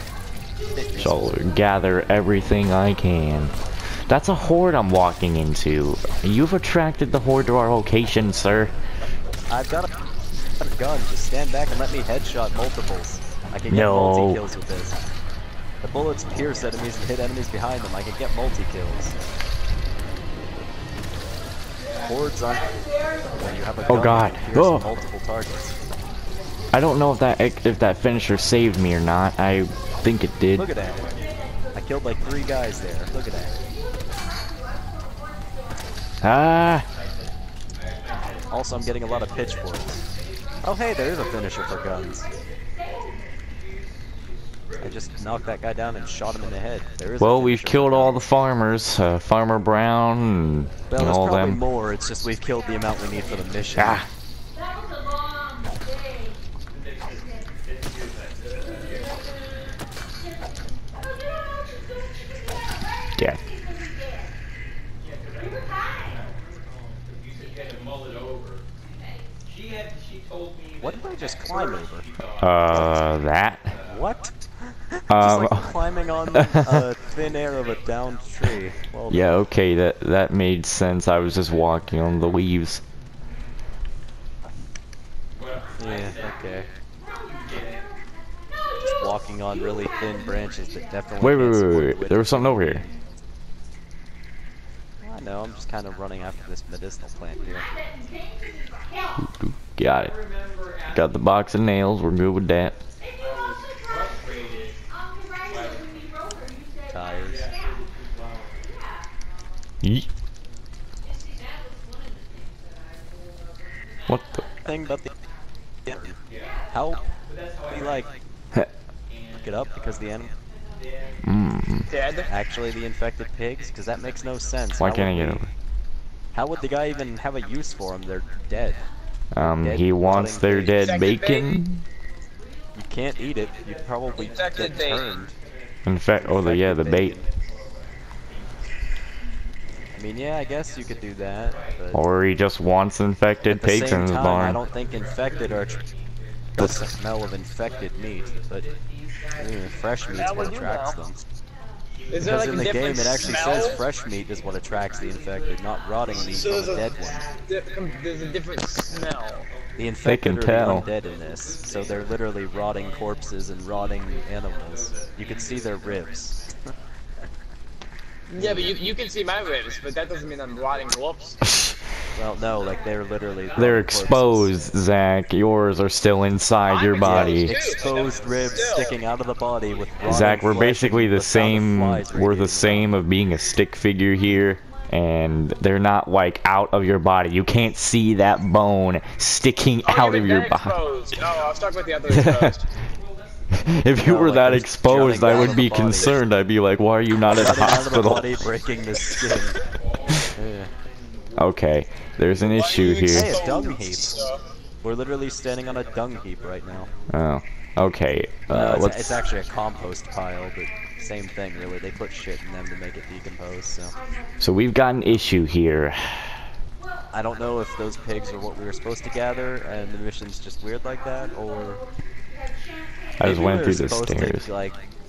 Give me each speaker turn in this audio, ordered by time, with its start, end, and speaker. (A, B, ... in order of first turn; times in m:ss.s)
0:00.7-0:01.4 A
0:01.0-0:03.6 B
0:04.1-0:08.7 B
0:09.5-0:09.9 A
0:10.6-0:15.0 A
0:13.7-0:14.4 B
0:15.8-0:19.2 A
0:22.0-0:25.8 A
0:23.9-0:24.9 B
0:26.7-0:30.7 B
0:30.6-0:31.1 A
0:31.7-0:33.6 A
0:36.2-0:36.9 B
0:38.5-0:40.0 A
0:40.6-0:42.3 A
0:44.8-0:48.2 A
0:47.2-0:51.6 B
0:50.9-0:54.0 A
0:53.8-0:54.1 B
1:03.2-1:03.4 B
1:10.8-1:12.1 A
1:12.4-1:13.8 B
1:13.8-1:19.3 A
1:15.1-1:15.8 B
1:16.3-1:16.8 B
1:19.1-1:22.8 B
1:25.8-1:26.7 A
1:28.8-1:33.0 A
1:31.2-1:32.8 B
1:35.0-1:37.7 A
1:39.2-1:40.2 B
1:40.9-1:42.8 B
1:46.9-1:47.5 A
1:49.8-1:50.1 B
1:54.1-1:54.5 B
1:54.6-1:55.2 A
1:55.8-1:56.2 A
1:56.7-1:57.1 A
1:57.6-1:58.2 A
1:59.4-2:00.4 A
2:01.2-2:01.9 B
2:01.9-2:02.3 C
2:02.2-2:05.4 A
2:04.8-2:05.5 B
2:06.3-2:08.9 A
2:09.3-2:11.8 B
2:09.4-2:11.0 A
2:10.8-2:11.5 C
2:12.8-2:15.4 A
2:14.2-2:15.1 C
2:15.8-2:17.2 B
2:16.1-2:17.3 A
2:19.9-2:22.0 A
2:21.9-2:24.6 B
2:23.5-2:25.9 A
2:26.6-2:28.7 A
2:29.3-2:31.2 A
2:30.1-2:31.0 C
2:32.1-2:33.8 C
2:32.2-2:37.3 A
2:36.2-2:39.5 C
2:39.8-2:46.6 A
2:40.0-2:40.9 B
2:48.3-2:51.4 C
2:51.4-2:51.8 B
2:52.1-2:54.6 A
2:53.6-2:57.6 B
2:56.7-2:58.9 C
2:57.0-3:02.9 A
3:00.0-3:10.8 B
3:09.8-3:12.7 C
3:12.1-3:12.6 B
3:13.5-3:18.4 B
3:14.0-3:16.2 A
3:17.3-3:19.6 A
3:20.3-3:20.7 A
3:21.4-3:23.6 B
3:22.5-3:24.4 C
3:22.9-3:24.2 A
3:24.8-3:26.9 A
3:27.1-3:29.2 B
3:28.5-3:34.0 A
3:34.4-3:36.5 B
3:37.1-3:41.8 A
3:43.2-3:44.5 B
3:43.2-3:44.8 A